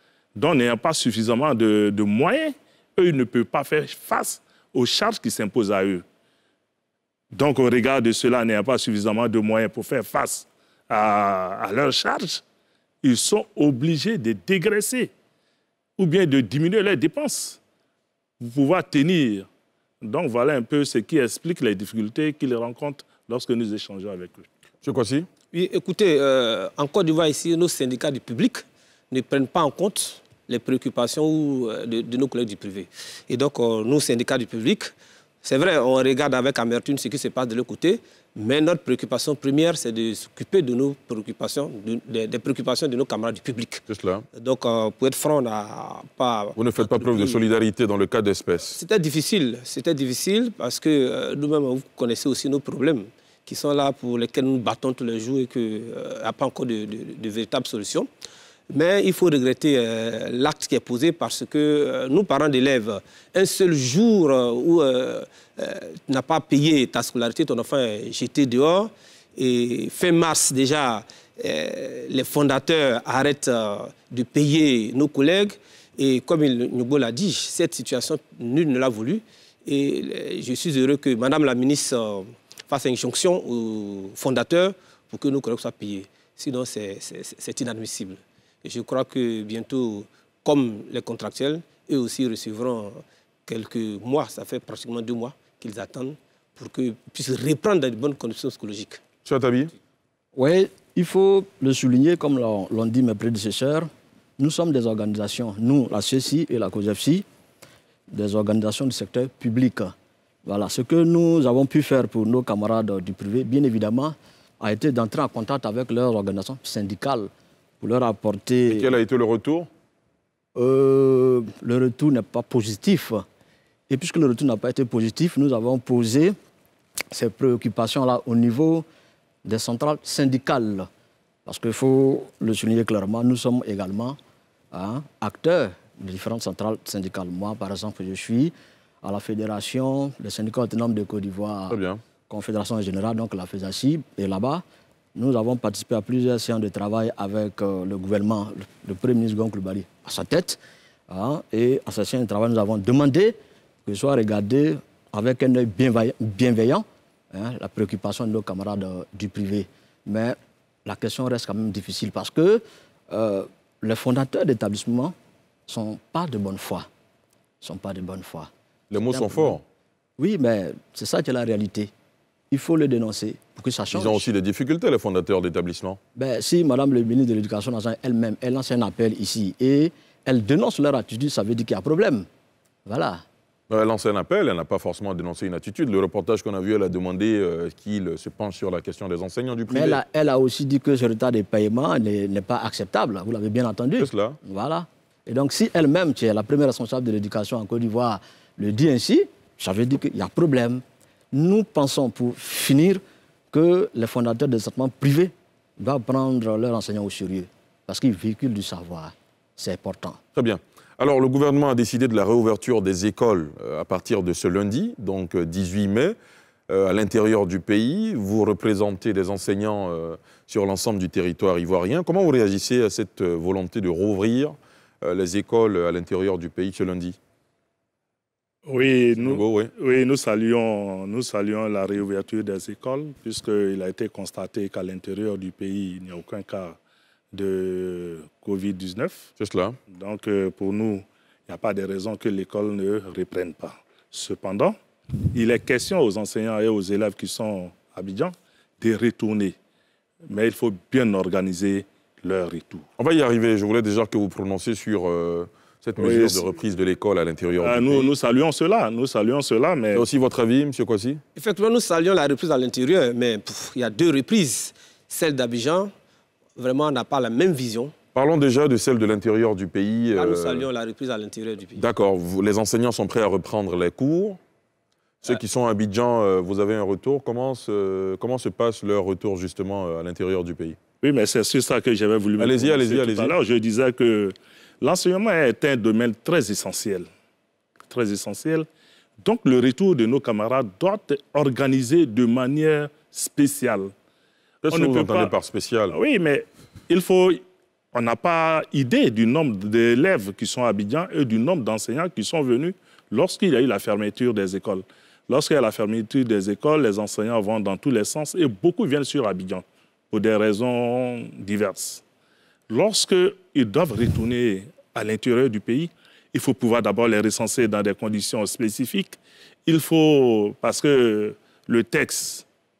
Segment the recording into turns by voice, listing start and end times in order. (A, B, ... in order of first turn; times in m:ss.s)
0:00.4-0:06.0 A
0:07.3-0:12.4 A
0:13.0-0:15.1 A
0:16.0-0:17.6 A
0:18.4-0:19.5 A
0:20.0-0:24.5 A
0:24.8-0:25.3 B
0:25.5-0:34.9 C
0:35.4-0:43.8 C
0:43.9-0:44.3 B
0:44.4-0:47.4 C
0:46.6-0:48.8 B
0:48.8-0:58.1 C
0:58.7-1:39.0 C
1:39.2-1:39.7 B
1:40.4-1:47.3 D
1:48.1-1:49.9 D
1:50.4-1:58.9 D
1:58.7-1:59.7 B
2:00.6-2:03.2 D
2:03.9-2:06.4 D
2:07.1-2:08.9 D
2:09.4-2:10.9 D
2:11.5-2:14.2 D
2:14.7-2:24.6 D
2:21.7-2:22.0 B
2:25.2-2:45.1 D
2:45.7-2:46.9 D
2:47.6-2:48.5 D
2:48.9-2:49.6 B
2:49.1-2:49.6 D
2:50.2-2:51.9 D
2:52.5-2:54.3 D
2:53.9-2:56.0 B
2:56.2-3:02.3 D
3:02.9-3:03.2 D
3:03.7-3:10.0 B
3:09.7-3:20.8 D
3:14.0-3:14.4 B
3:21.3-3:30.2 D
3:30.4-3:36.2 B
3:36.7-3:47.2 B
3:48.7-3:56.8 A
3:49.2-3:49.7 B
3:57.3-3:59.3 A
3:59.4-3:59.8 B
3:59.9-4:04.8 A
4:05.3-4:09.6 A
4:10.3-4:12.9 A
4:13.0-4:18.1 B
4:16.0-4:16.5 A
4:17.6-4:20.1 A
4:19.9-4:21.2 B
4:21.4-4:25.9 C
4:26.6-4:27.9 C
4:28.2-4:30.7 B
4:30.2-4:31.8 C
4:31.8-4:34.4 B
4:35.2-4:40.8 B
4:41.0-4:47.1 A
4:42.4-4:43.3 B
4:47.9-4:48.7 A
4:49.2-4:53.9 A
4:54.6-4:56.0 B
4:54.7-4:55.3 A
4:55.9-4:57.4 A
4:57.9-5:12.0 A
5:12.7-5:22.4 A